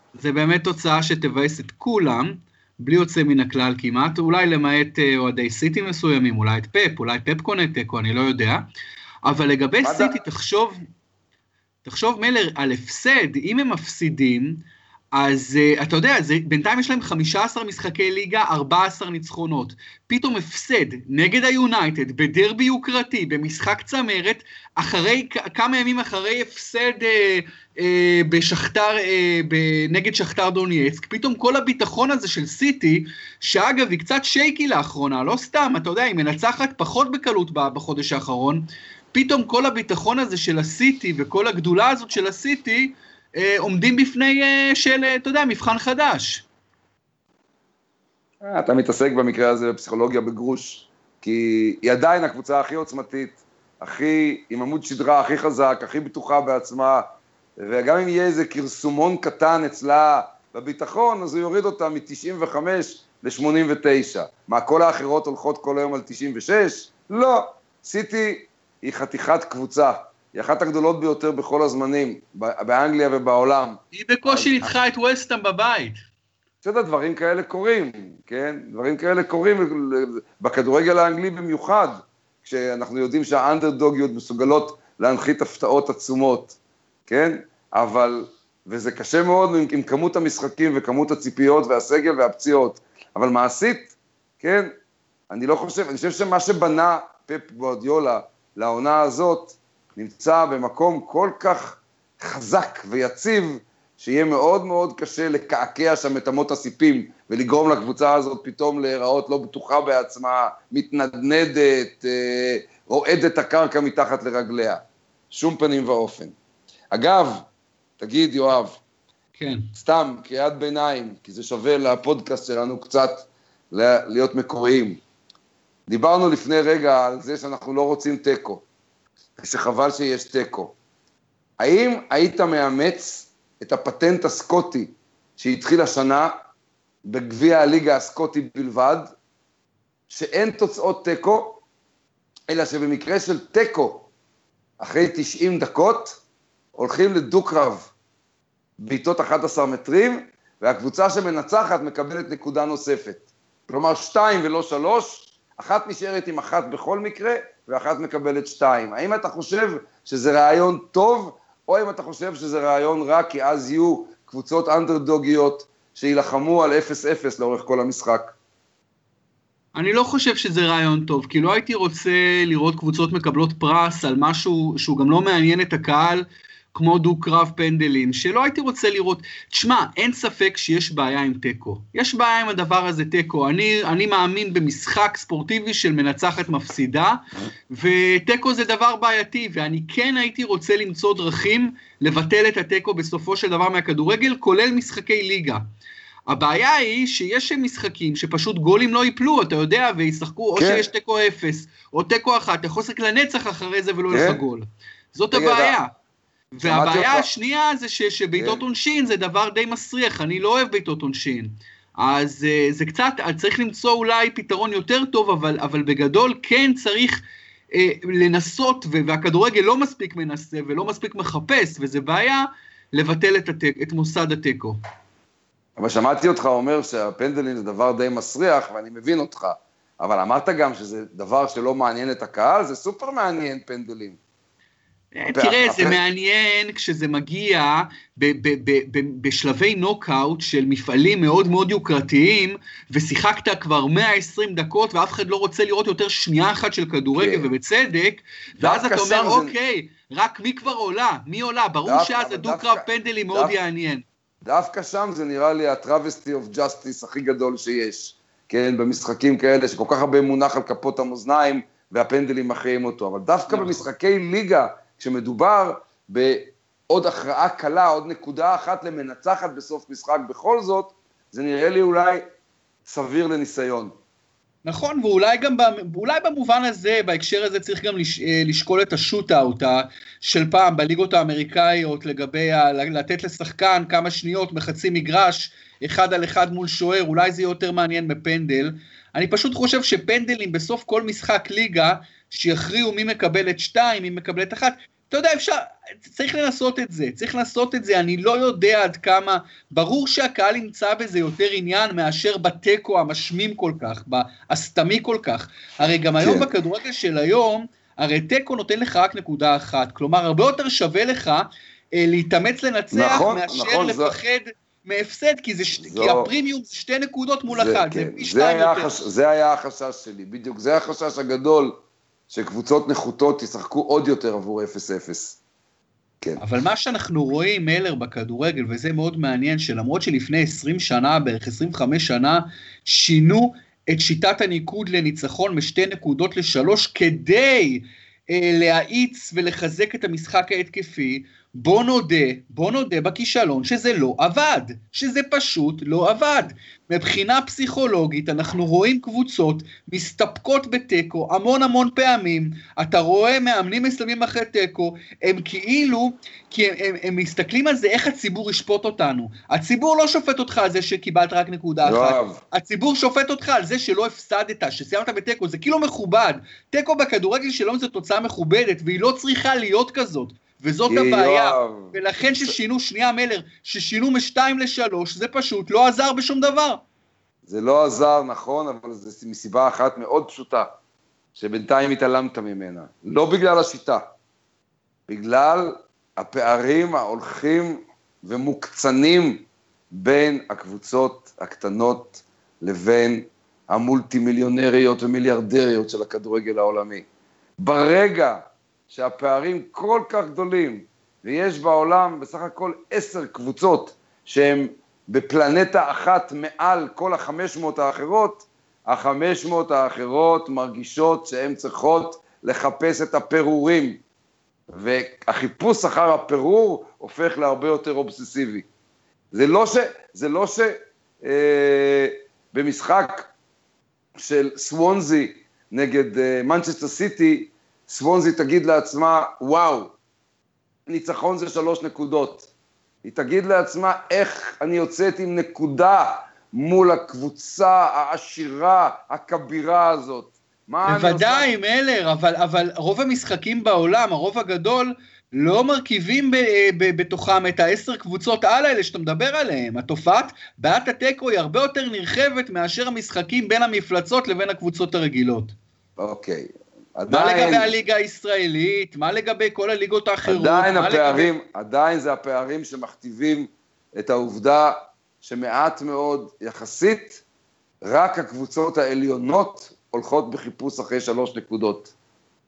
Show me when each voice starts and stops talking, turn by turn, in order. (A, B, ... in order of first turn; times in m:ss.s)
0:00.1-0:08.6 A
0:09.2-0:10.8 A
0:09.8-0:10.1 B
0:11.8-0:46.5 A
0:48.4-0:57.0 B
0:57.6-1:14.7 B
1:13.9-1:16.0 A
1:16.6-1:26.6 B
1:27.1-1:34.7 B
1:35.3-1:56.3 B
1:56.9-1:57.4 B
1:58.0-1:58.8 B
1:59.4-1:59.7 A
1:59.7-2:05.0 B
2:05.9-2:08.6 B
2:09.4-2:10.7 B
2:11.6-2:16.3 B
2:17.0-2:19.1 B
2:20.1-2:21.6 B
2:22.5-2:24.1 B
2:24.8-2:26.2 B
2:26.7-2:27.9 B
2:28.8-2:48.3 B
2:49.7-3:15.6 A
3:16.3-3:25.9 A
3:20.6-3:20.8 B
3:24.1-3:24.4 B
3:25.3-3:25.7 B
3:26.5-3:37.2 A
3:26.6-3:27.3 B
3:37.7-3:44.8 A
3:45.8-3:54.2 B
3:55.1-4:14.0 A
3:55.3-3:56.0 B
4:07.1-4:07.5 B
4:08.6-4:09.5 B
4:11.8-4:13.6 B
4:14.4-4:32.2 B
4:23.5-4:23.8 A
4:32.8-4:33.9 B
4:34.6-5:19.0 A
5:06.2-5:06.5 B
5:12.9-5:14.2 B
5:15.8-5:16.3 B
5:17.5-5:21.8 B
5:22.3-5:25.4 B
5:26.4-6:16.8 A
6:01.8-6:02.4 B
6:10.9-6:12.5 B
6:17.4-6:20.7 B
6:21.4-6:24.0 B
6:25.1-6:37.0 B
6:37.6-6:54.0 B
6:54.7-6:58.6 B
6:59.3-7:03.3 B
7:04.2-7:09.9 B
7:10.9-7:12.5 B
7:13.0-7:21.5 B
7:20.8-7:35.5 A
7:36.0-7:37.7 B
7:37.1-7:41.3 A
7:40.2-7:47.2 B
7:47.8-7:51.9 B